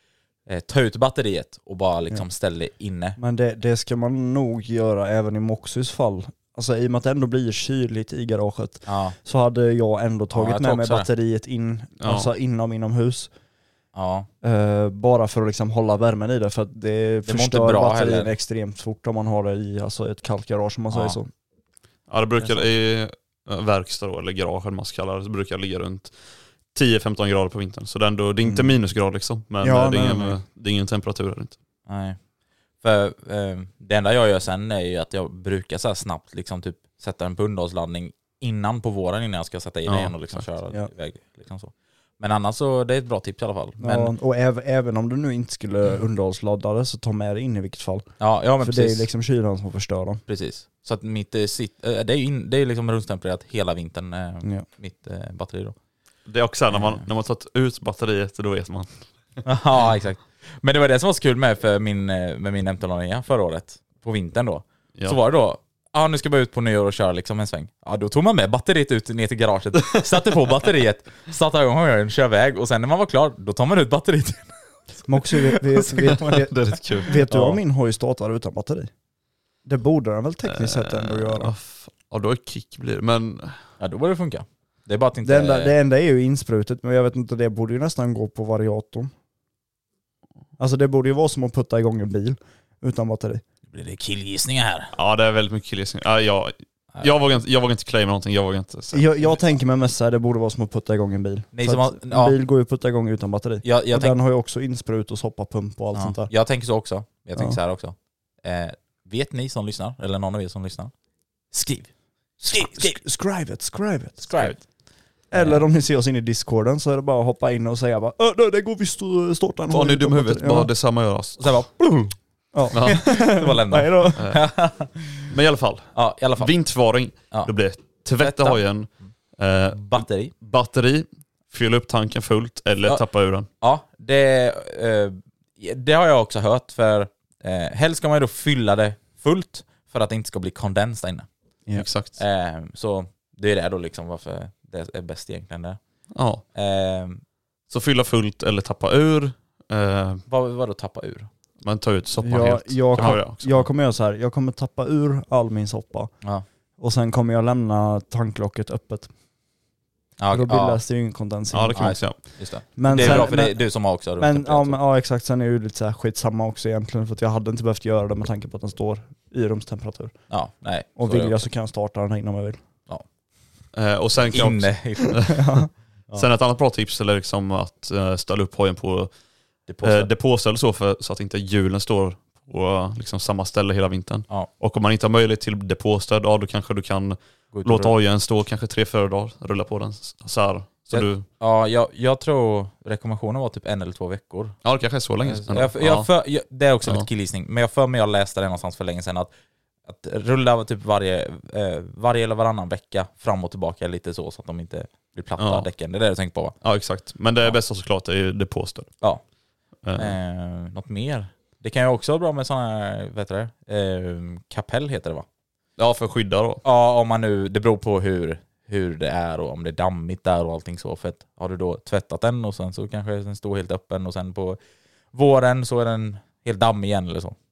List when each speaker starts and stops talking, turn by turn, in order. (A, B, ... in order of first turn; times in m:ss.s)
0:00.5-0:03.2 A
0:03.2-0:13.3 B
0:08.9-0:09.2 A
0:10.3-0:11.1 A
0:12.0-0:12.3 C
0:14.0-0:14.3 A
0:14.4-0:21.3 B
0:17.2-0:18.3 A
0:20.9-0:21.2 A
0:22.1-0:26.1 C
0:26.7-0:31.6 C
0:28.4-0:28.7 B
0:29.6-0:30.4 B
0:31.9-0:32.2 A
0:32.8-0:44.1 A
0:39.9-0:40.4 C
0:43.8-0:50.2 B
0:48.2-0:49.1 A
0:50.3-0:55.8 A
0:56.3-0:58.9 C
0:56.7-0:57.0 A
0:59.4-1:14.5 A
1:15.1-1:18.9 B
1:15.3-1:16.2 A
1:16.0-1:17.6 C
1:19.7-1:21.5 B
1:20.5-1:23.6 C
1:23.8-1:25.7 A
1:25.2-1:29.1 B
1:30.6-1:33.4 B
1:33.7-1:34.9 A
1:35.0-1:39.4 C
1:38.9-1:46.3 B
1:41.5-1:42.4 A
1:43.6-1:44.2 A
1:45.9-1:50.9 A
1:51.5-1:51.9 A
1:52.4-1:54.5 B
1:52.4-1:53.0 A
1:54.2-1:54.6 A
1:55.3-2:00.7 B
1:55.3-1:55.6 A
1:59.7-2:01.5 C
2:01.4-2:02.2 A
2:02.5-2:04.2 B
2:02.7-2:03.0 C
2:02.8-2:05.3 A
2:05.3-2:13.5 C
2:06.0-2:06.5 A
2:08.2-2:08.6 A
2:09.7-2:10.3 A
2:13.6-2:21.3 A
2:21.8-2:22.2 C
2:22.2-2:25.8 A
2:26.1-2:26.4 C
2:26.6-2:27.2 A
2:27.7-2:30.2 C
2:30.3-2:31.3 A
2:31.6-2:33.7 C
2:32.2-2:36.1 B
2:33.0-2:33.3 A
2:36.8-2:39.1 B
2:40.2-2:40.8 A
2:40.3-2:42.2 B
2:41.5-2:42.2 C
2:41.7-2:44.8 A
2:42.8-2:50.2 B
2:42.8-2:43.4 C
2:50.3-2:51.5 A
2:51.0-2:52.6 B
2:53.7-2:55.3 C
2:54.2-2:55.4 A
2:55.3-2:55.7 B
2:56.2-2:59.1 C
2:59.7-3:00.1 A
2:59.8-3:11.2 C
3:07.5-3:08.0 A
3:10.9-3:14.6 A
3:14.6-3:16.1 C
3:15.2-3:19.3 A
3:19.8-3:26.6 A
3:25.4-3:25.7 C
3:26.6-3:28.9 C
3:29.8-3:30.2 C
3:30.0-3:35.3 A
3:35.8-3:36.6 C
3:36.6-3:44.6 A
3:45.1-3:47.4 A